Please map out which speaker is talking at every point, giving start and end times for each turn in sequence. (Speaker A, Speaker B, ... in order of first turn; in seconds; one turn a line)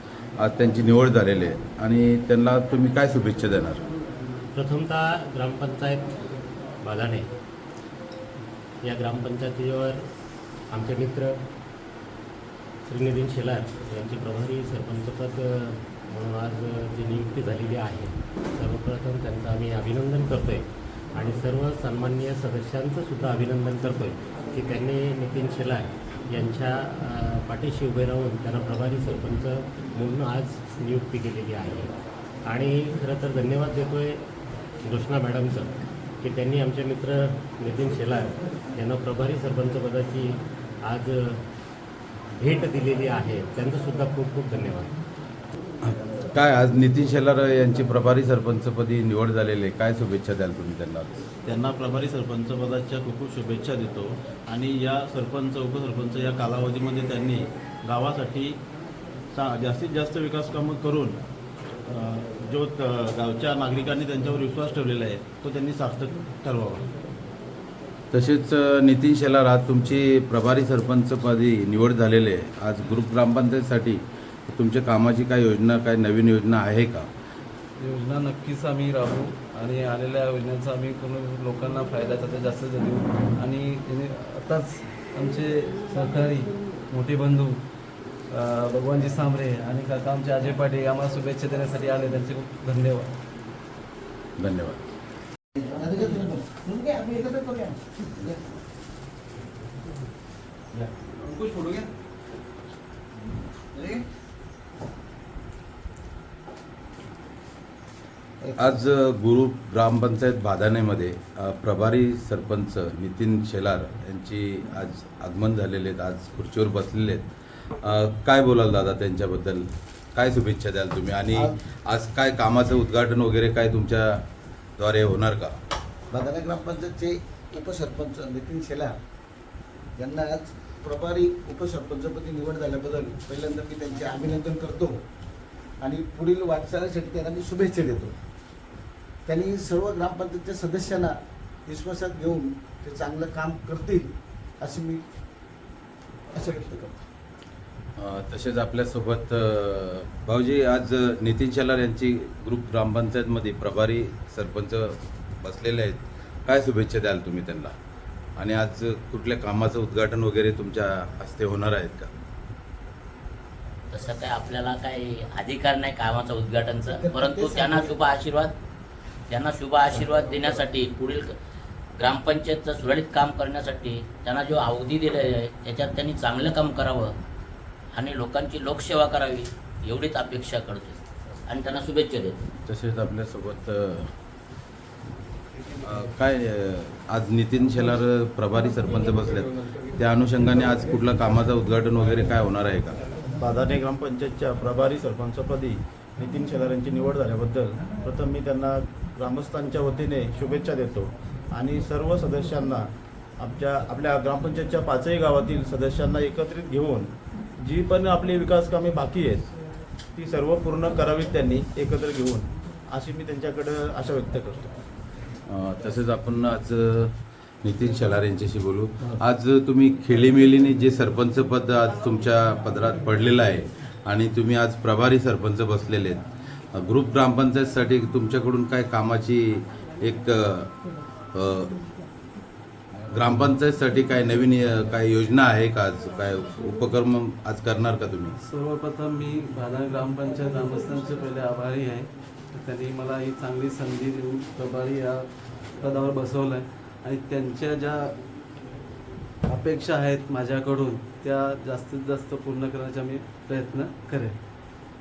Speaker A: 0.4-3.8
Speaker B: 4.5-6.1
Speaker B: 6.8-7.3
Speaker B: 8.8-10.1
Speaker B: 10.7-11.4
Speaker B: 12.8-31.9
Speaker B: 32.4-34.2
Speaker B: 34.8-41.4
Speaker B: 42.4-45.0
Speaker A: 45.8-51.2
Speaker C: 51.4-58.6
Speaker C: 59.3-61.2
Speaker C: 61.9-66.9
Speaker A: 68.1-77.1
Speaker D: 77.8-87.6
Speaker D: 88.3-93.1
Speaker A: 94.4-94.8
Speaker E: 95.5-98.4
Speaker E: 100.7-101.9
Speaker E: 103.7-104.0
Speaker E: 108.4-108.8
Speaker A: 108.6-117.3
Speaker A: 117.8-124.2
Speaker E: 121.3-121.6
Speaker A: 124.8-125.6
Speaker E: 126.1-128.9
Speaker E: 130.0-135.0
Speaker E: 135.8-138.2
Speaker E: 139.2-141.1
Speaker E: 141.7-145.0
Speaker E: 146.3-147.0
Speaker A: 148.0-157.7
Speaker A: 158.4-162.1
Speaker F: 163.9-168.5
Speaker E: 166.8-168.2
Speaker F: 169.3-171.3
Speaker E: 169.9-170.7
Speaker F: 172.0-177.1
Speaker F: 177.9-182.4
Speaker A: 182.7-184.1
Speaker A: 185.8-193.0
Speaker C: 193.4-209.5
Speaker C: 210.1-214.8
Speaker A: 215.5-230.7
Speaker A: 231.3-231.8
Speaker A: 233.1-238.3
Speaker D: 238.4-248.1
Speaker D: 249.4-254.3